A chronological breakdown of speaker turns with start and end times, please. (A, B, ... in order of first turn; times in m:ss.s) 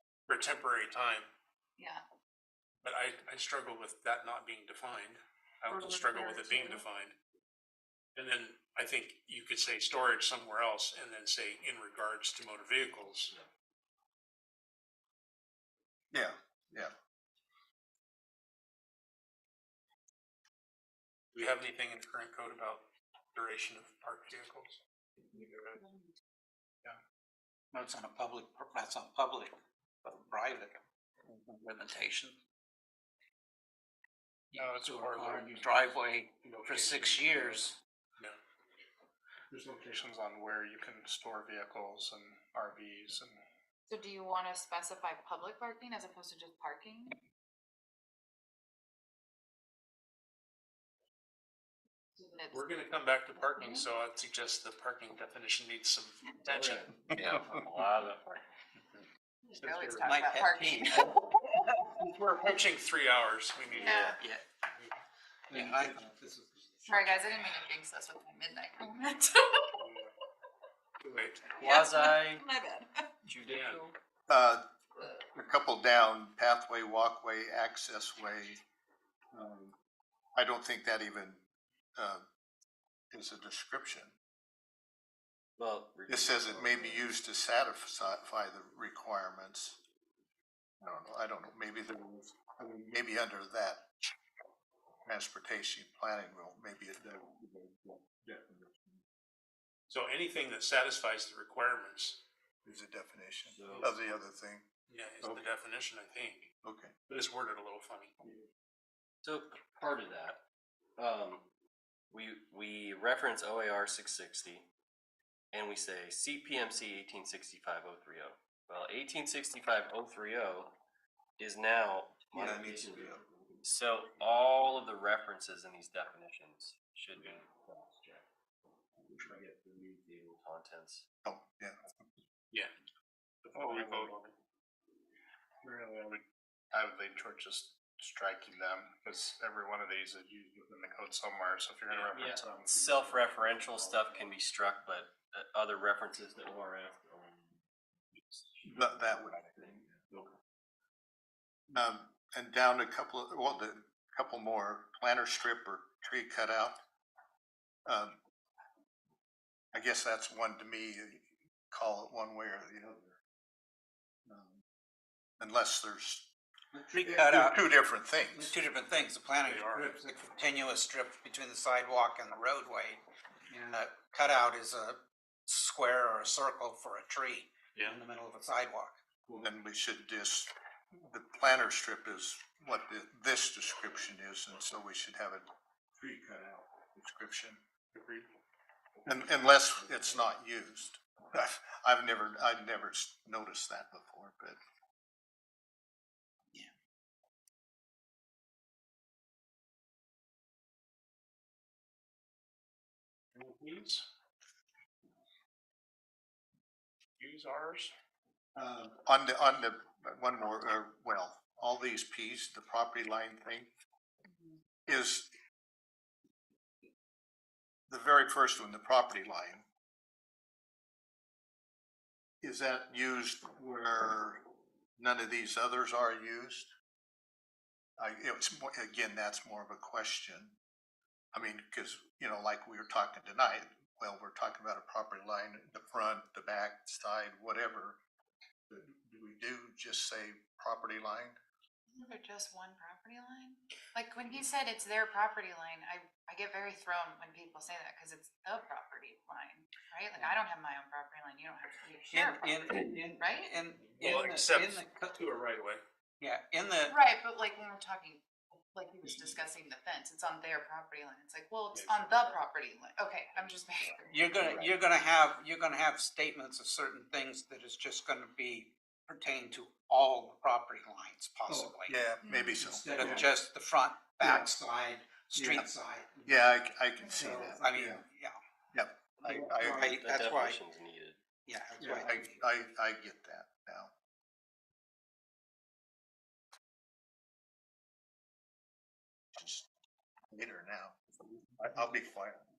0:00.3-0:01.3 A
0:01.8-0:02.0 B
0:02.8-0:07.2 A
0:05.7-0:06.8 B
0:08.2-0:13.3 A
0:16.1-0:16.9 C
0:21.3-0:22.8 A
0:23.3-0:24.8 A
0:25.3-0:25.8 A
0:25.8-0:26.1 B
0:27.7-0:29.5 D
0:30.0-0:32.4 D
0:34.5-0:35.7 A
0:34.5-0:37.8 D
0:36.4-0:38.4 A
0:39.5-0:43.4 E
0:43.9-0:47.2 B
0:52.2-0:52.6 B
0:52.5-0:56.8 A
0:53.4-0:53.9 B
0:56.5-0:58.4 F
0:59.4-1:01.6 B
0:59.6-1:00.1 A
1:00.1-1:01.9 D
1:01.9-1:04.1 A
1:03.7-1:04.2 F
1:03.7-1:04.2 B
1:05.5-1:07.5 D
1:06.8-1:09.8 B
1:11.0-1:11.5 A
1:11.5-1:13.0 B
1:11.6-1:12.4 F
1:13.3-1:13.9 F
1:13.3-1:13.8 A
1:14.3-1:14.6 C
1:15.3-1:18.6 C
1:19.3-1:19.8 C
1:20.4-1:21.4 C
1:22.0-1:22.2 C
1:23.1-1:24.2 C
1:25.6-1:27.1 F
1:26.1-1:29.8 C
1:30.8-1:33.8 C
1:35.1-1:38.9 C
1:39.9-1:42.2 A
1:42.6-1:44.6 C
1:43.5-1:43.9 F
1:44.9-1:46.5 A
1:45.2-1:45.5 C
1:46.6-1:46.9 C
1:47.1-1:48.1 A
1:49.2-1:50.4 F
1:51.0-1:51.5 F
1:52.1-1:54.7 F
1:55.5-2:00.8 F
2:01.4-2:07.5 F
2:02.3-2:03.2 C
2:09.3-2:11.0 F
2:11.2-2:11.8 C
2:13.4-2:14.3 A
2:13.6-2:14.1 E
2:15.6-2:24.2 E
2:22.1-2:27.6 F
2:28.3-2:29.8 F
2:28.6-2:29.7 C
2:31.7-2:36.8 C
2:37.9-2:38.2 C
2:39.7-2:43.2 C
2:44.3-2:44.6 C
2:45.4-2:46.3 C
2:46.7-2:59.0 D
2:47.0-2:48.6 C
2:49.4-2:49.9 A
2:57.7-2:58.0 A
2:59.3-3:05.5 C
3:06.0-3:07.6 C
3:07.9-3:08.3 A
3:09.1-3:14.6 C
3:23.4-3:24.1 A
3:27.2-3:27.9 A
3:28.6-3:33.7 C
3:34.3-3:34.6 B
3:34.9-3:35.3 C
3:37.9-3:39.6 C
3:42.4-3:44.4 C
3:45.0-3:46.7 C
3:48.0-3:50.6 C
3:51.3-3:58.0 C
3:58.7-4:01.4 C
4:01.9-4:13.6 B
4:12.1-4:15.2 D
4:13.9-4:15.8 A
4:16.2-4:17.0 D
4:16.9-4:24.6 B
4:21.7-4:22.4 A
4:24.1-4:32.0 D
4:24.4-4:24.7 F
4:31.5-4:33.3 C
4:32.2-4:32.7 B
4:32.5-4:36.6 D
4:34.2-4:34.5 C
4:35.3-4:35.7 C
4:36.3-4:38.0 C
4:37.0-4:37.4 B
4:37.1-4:38.4 D
4:38.7-4:39.9 C
4:39.2-4:40.6 D
4:39.8-4:41.2 F
4:41.4-4:42.4 D
4:41.8-4:43.9 C
4:49.3-4:49.7 C
4:50.3-4:51.0 C
4:51.6-4:52.4 C